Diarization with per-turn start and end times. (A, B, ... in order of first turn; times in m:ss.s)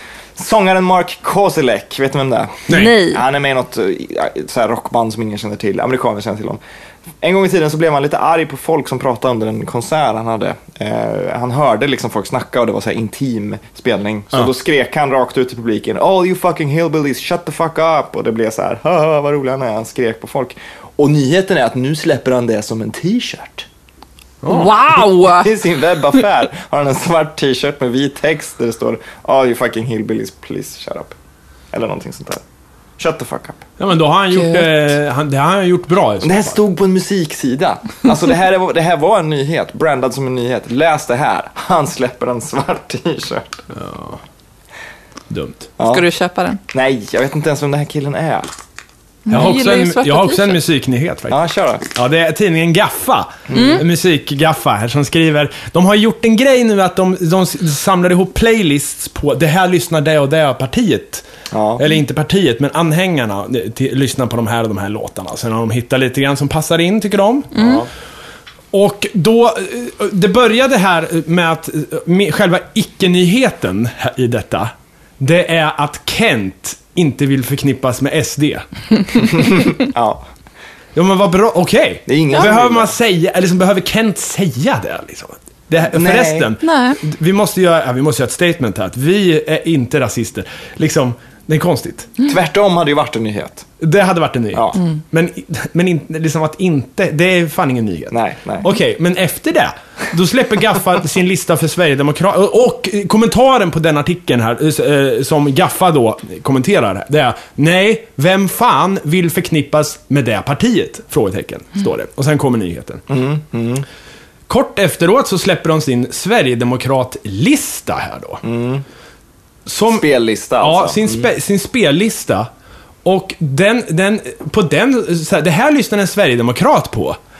0:00.3-0:06.6 A
0:02.7-0:03.0 B
0:02.7-0:03.2 C
0:07.2-0:23.7 A
0:24.4-0:24.7 B
0:24.5-0:25.5 C
0:25.0-0:31.2 A
0:31.7-0:32.4 A
0:33.0-0:33.6 A
0:33.8-0:36.6 B
0:34.3-0:34.7 C
0:36.2-0:43.6 A
0:43.7-0:44.2 B
0:45.3-0:45.7 B
0:45.8-0:46.0 A
0:45.8-0:46.6 C
0:46.7-0:48.5 A
0:49.2-0:50.6 C
0:49.3-0:51.4 B
0:51.3-0:51.8 A
0:51.9-1:01.2 B
0:53.5-0:53.8 A
0:53.5-0:53.8 C
1:01.5-1:01.8 A
1:01.8-1:07.6 B
1:07.5-1:07.9 A
1:08.7-1:18.7 B
1:19.2-1:20.2 A
1:20.9-1:32.1 B
1:22.1-1:22.9 A
1:25.9-1:26.5 A
1:26.6-1:27.0 C
1:32.2-1:33.7 A
1:33.8-1:53.0 B
1:34.5-1:34.8 A
1:38.1-1:38.7 A
1:53.1-1:53.8 A
1:54.5-1:58.4 B
1:58.4-1:58.8 A
1:59.6-2:00.0 B
1:59.9-2:01.3 A
2:00.6-2:02.5 B
2:03.0-2:07.2 B